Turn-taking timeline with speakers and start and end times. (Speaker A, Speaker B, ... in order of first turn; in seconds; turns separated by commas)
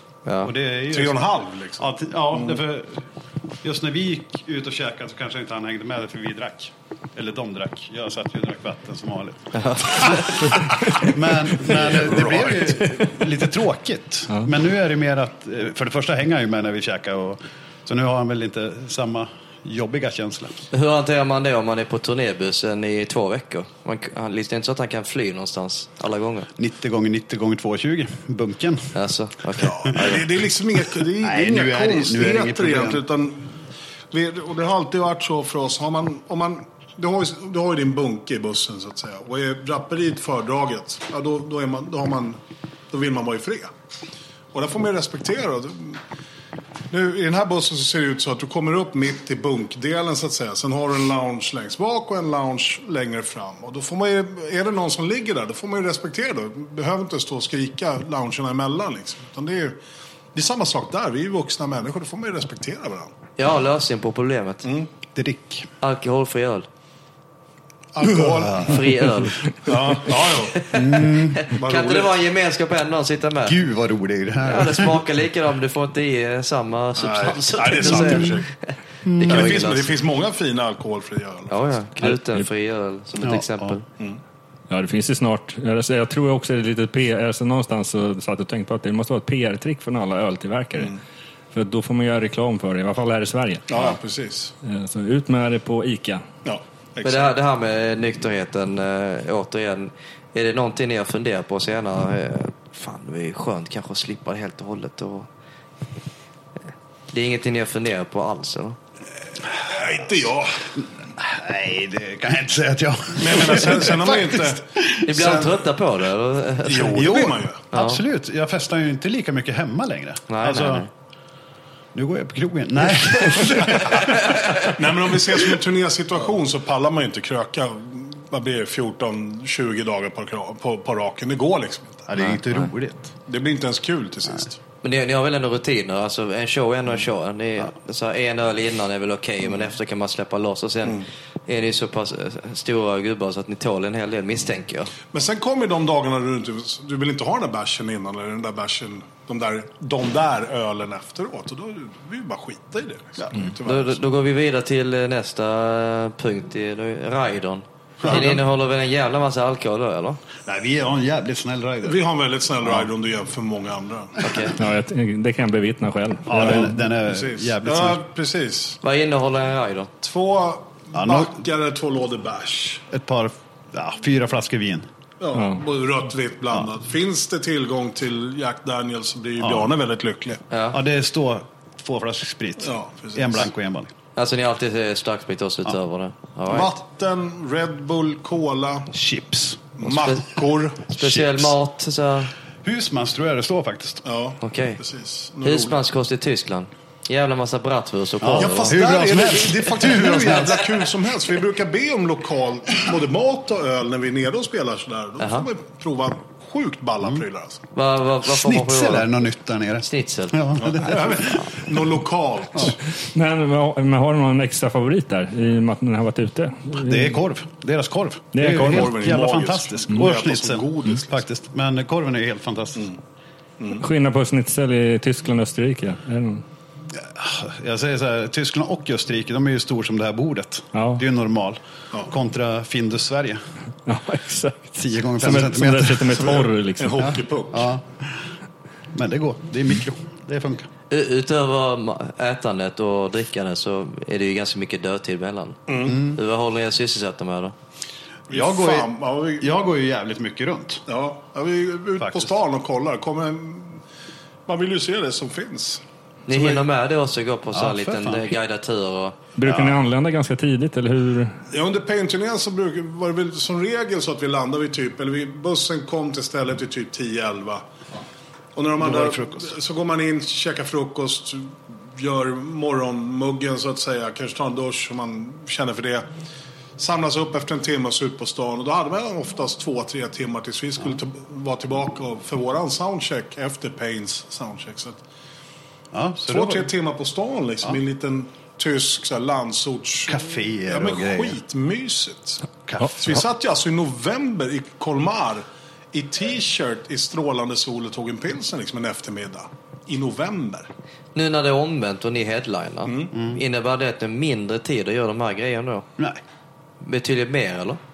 Speaker A: 0.2-0.5, Speaker B: 0.4-3.0, Speaker C: 0.9-2.6, Speaker B: 3.6-20.6, Speaker A: 9.6-9.9, Speaker C: 11.7-12.8, Speaker A: 20.7-26.5, Speaker B: 26.6-28.9, Speaker A: 28.9-30.3, Speaker C: 29.6-33.5, Speaker B: 31.2-33.0, Speaker C: 34.1-42.4, Speaker C: 42.9-43.7, Speaker C: 44.5-46.0, Speaker C: 46.9-59.8, Speaker C: 60.3-63.1, Speaker A: 63.4-64.7, Speaker C: 64.6-64.9, Speaker B: 65.1-65.7, Speaker A: 65.8-66.7, Speaker C: 67.9-68.8, Speaker B: 68.1-68.9, Speaker A: 68.6-69.5, Speaker C: 69.6-70.6, Speaker A: 70.5-73.6, Speaker B: 70.7-71.4, Speaker C: 71.5-72.1, Speaker B: 73.4-75.0, Speaker A: 74.4-79.9, Speaker C: 77.0-78.5, Speaker B: 77.8-78.3, Speaker B: 79.0-79.6, Speaker C: 79.3-81.7, Speaker A: 81.5-83.8, Speaker D: 82.0-82.4, Speaker B: 83.2-83.7, Speaker D: 84.7-91.0, Speaker D: 91.5-93.7, Speaker C: 93.7-94.5, Speaker D: 94.6-96.2, Speaker C: 96.4-97.3, Speaker A: 97.0-105.3, Speaker A: 107.1-108.8, Speaker C: 109.6-110.6, Speaker B: 110.8-115.1, Speaker C: 113.2-115.5, Speaker A: 115.0-118.0, Speaker C: 116.6-117.6, Speaker B: 116.9-120.9, Speaker A: 120.3-120.9, Speaker B: 121.9-124.7, Speaker A: 124.0-124.5, Speaker C: 124.6-132.1, Speaker B: 132.1-133.1, Speaker A: 132.2-132.7, Speaker C: 133.3-134.6, Speaker A: 134.8-144.9, Speaker C: 145.1-154.0, Speaker A: 153.6-160.2, Speaker C: 158.0-158.4, Speaker B: 158.0-158.4, Speaker B: 160.4-162.0, Speaker C: 161.8-164.2, Speaker A: 164.2-164.5, Speaker D: 164.6-166.8, Speaker B: 166.3-168.0, Speaker C: 166.4-168.8, Speaker A: 168.8-169.9, Speaker C: 170.0-172.8, Speaker B: 170.9-171.4, Speaker B: 172.9-174.9, Speaker C: 175.2-180.4, Speaker B: 179.4-179.7, Speaker A: 180.5-180.8, Speaker B: 180.7-183.9, Speaker C: 182.6-183.5, Speaker A: 184.2-186.7, Speaker C: 186.5-188.9, Speaker B: 188.9-190.1, Speaker C: 189.8-190.8, Speaker A: 189.9-190.2, Speaker A: 190.9-192.3, Speaker B: 191.0-191.5, Speaker B: 192.6-194.0, Speaker C: 194.0-195.8, Speaker A: 194.4-194.8, Speaker A: 195.4-198.8, Speaker B: 198.2-200.8, Speaker C: 198.4-207.6, Speaker A: 205.2-205.5, Speaker A: 207.7-209.1, Speaker B: 208.2-211.6, Speaker A: 209.8-210.4, Speaker C: 210.6-212.8, Speaker D: 213.1-217.2, Speaker B: 216.8-222.9, Speaker D: 218.3-219.0, Speaker C: 218.6-221.2, Speaker D: 223.8-226.4, Speaker B: 226.9-233.4, Speaker D: 230.7-231.0, Speaker D: 233.9-237.2, Speaker B: 234.8-236.2, Speaker C: 236.1-237.7, Speaker B: 237.0-238.2, Speaker B: 238.9-240.7, Speaker A: 240.9-247.5, Speaker C: 245.7-246.0, Speaker B: 245.8-246.2, Speaker B: 248.3-250.8, Speaker C: 248.3-249.5, Speaker C: 250.9-253.8, Speaker B: 252.0-252.3, Speaker C: 254.4-255.8, Speaker A: 256.3-259.2, Speaker B: 257.5-258.3, Speaker D: 259.4-261.4, Speaker B: 259.4-259.8, Speaker C: 261.5-267.6, Speaker C: 268.5-276.1, Speaker B: 268.8-269.5, Speaker C: 276.8-285.0, Speaker B: 285.9-286.7, Speaker C: 286.2-300.7, Speaker B: 290.1-291.4, Speaker B: 292.6-293.2, Speaker A: 301.1-305.9, Speaker C: 302.9-303.1, Speaker B: 303.1-303.4, Speaker A: 306.8-307.8